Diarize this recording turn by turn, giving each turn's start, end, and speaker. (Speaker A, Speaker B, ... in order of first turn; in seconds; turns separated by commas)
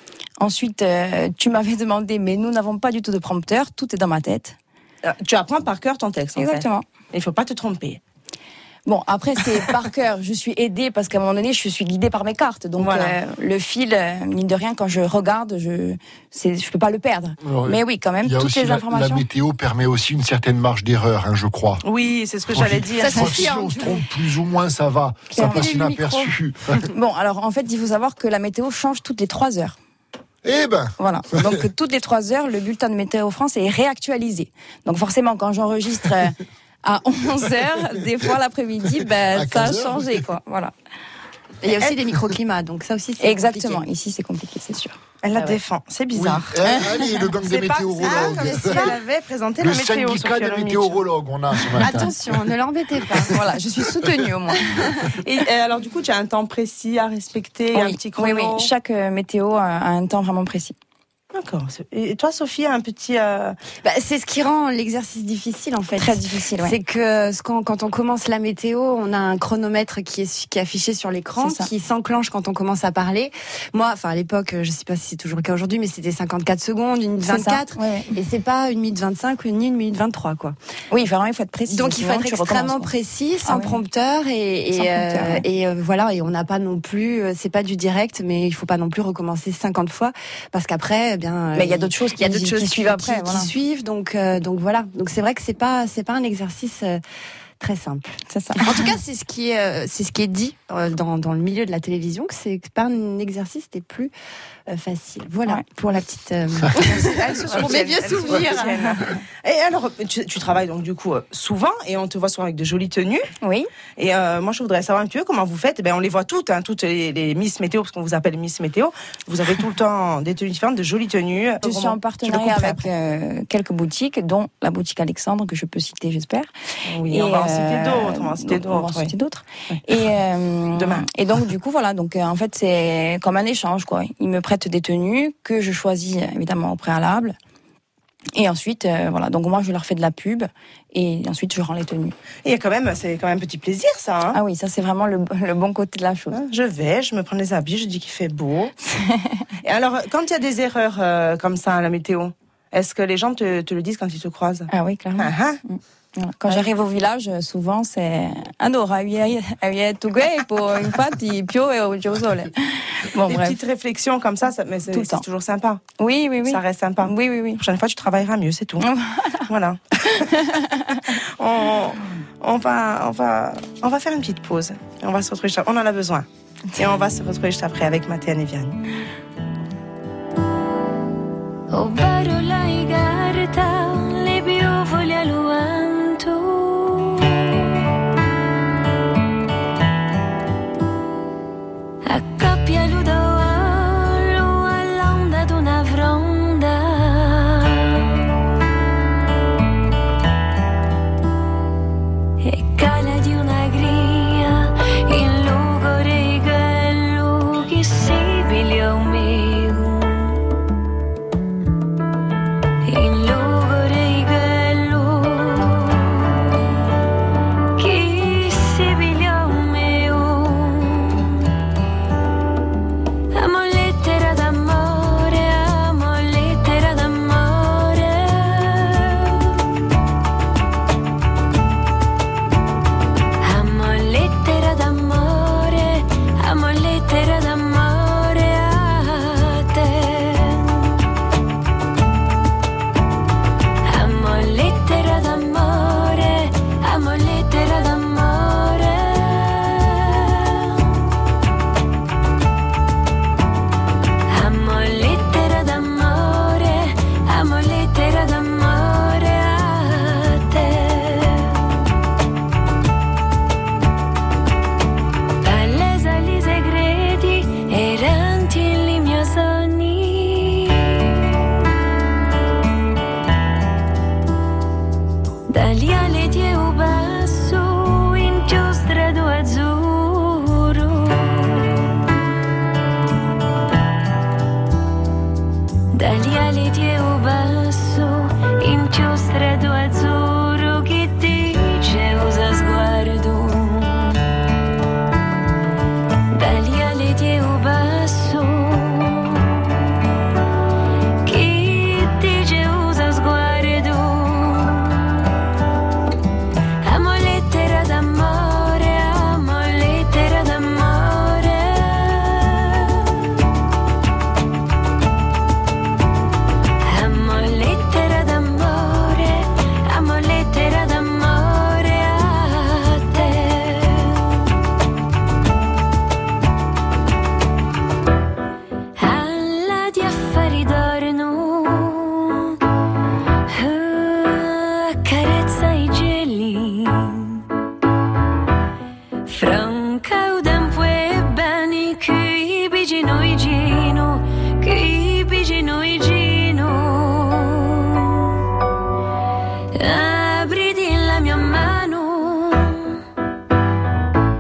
Speaker A: 0.4-4.6, Speaker B: 5.0-8.0, Speaker A: 6.4-6.8, Speaker A: 8.9-19.2, Speaker B: 12.8-13.2, Speaker C: 17.4-21.8, Speaker B: 21.8-23.5, Speaker C: 22.5-26.8, Speaker D: 23.0-24.1, Speaker A: 25.3-26.0, Speaker D: 25.4-26.3, Speaker A: 26.9-29.8, Speaker C: 30.4-31.6, Speaker A: 31.0-40.7, Speaker C: 39.3-40.2, Speaker D: 41.6-43.9, Speaker A: 43.2-45.6, Speaker B: 45.2-46.6, Speaker C: 46.1-49.0, Speaker B: 47.4-51.0, Speaker D: 48.0-49.0, Speaker C: 49.6-52.2, Speaker D: 51.8-53.4, Speaker A: 53.3-54.7, Speaker D: 54.7-55.1, Speaker B: 55.2-58.7, Speaker A: 57.8-60.8, Speaker B: 61.3-63.6, Speaker D: 63.8-80.6, Speaker A: 66.0-66.8, Speaker A: 71.4-71.7, Speaker A: 77.3-78.1, Speaker A: 80.9-82.9, Speaker D: 81.7-97.0, Speaker A: 83.5-83.8, Speaker A: 84.7-85.4, Speaker A: 91.5-93.5, Speaker D: 97.6-104.1, Speaker A: 98.3-98.8, Speaker D: 104.7-109.0, Speaker B: 106.7-113.3, Speaker A: 113.4-113.7, Speaker B: 114.0-122.9, Speaker A: 121.6-126.5, Speaker B: 126.9-129.1, Speaker A: 127.1-137.4, Speaker B: 130.8-131.1, Speaker A: 138.3-142.2, Speaker B: 142.4-144.4, Speaker A: 144.3-146.4, Speaker B: 146.3-148.8, Speaker A: 148.8-149.5, Speaker B: 149.6-155.6, Speaker A: 154.7-163.6, Speaker B: 163.3-165.8, Speaker A: 164.9-165.2, Speaker A: 166.0-167.6, Speaker B: 166.4-168.9, Speaker A: 168.8-169.4, Speaker B: 169.5-170.5, Speaker A: 170.2-171.0, Speaker B: 171.4-176.3, Speaker B: 176.8-178.8, Speaker E: 181.7-187.8, Speaker E: 192.1-198.2, Speaker E: 202.4-210.4, Speaker E: 212.8-216.6, Speaker E: 217.8-221.5, Speaker E: 223.3-229.6, Speaker E: 233.4-241.0, Speaker E: 243.8-251.0, Speaker E: 254.3-261.7, Speaker E: 265.4-271.4, Speaker E: 275.5-282.0, Speaker E: 285.9-294.2, Speaker E: 296.3-299.7, Speaker E: 301.2-305.1, Speaker E: 306.8-313.3, Speaker E: 316.8-324.4, Speaker E: 329.0-332.6, Speaker E: 333.5-337.4, Speaker E: 339.3-348.4, Speaker E: 349.7-353.0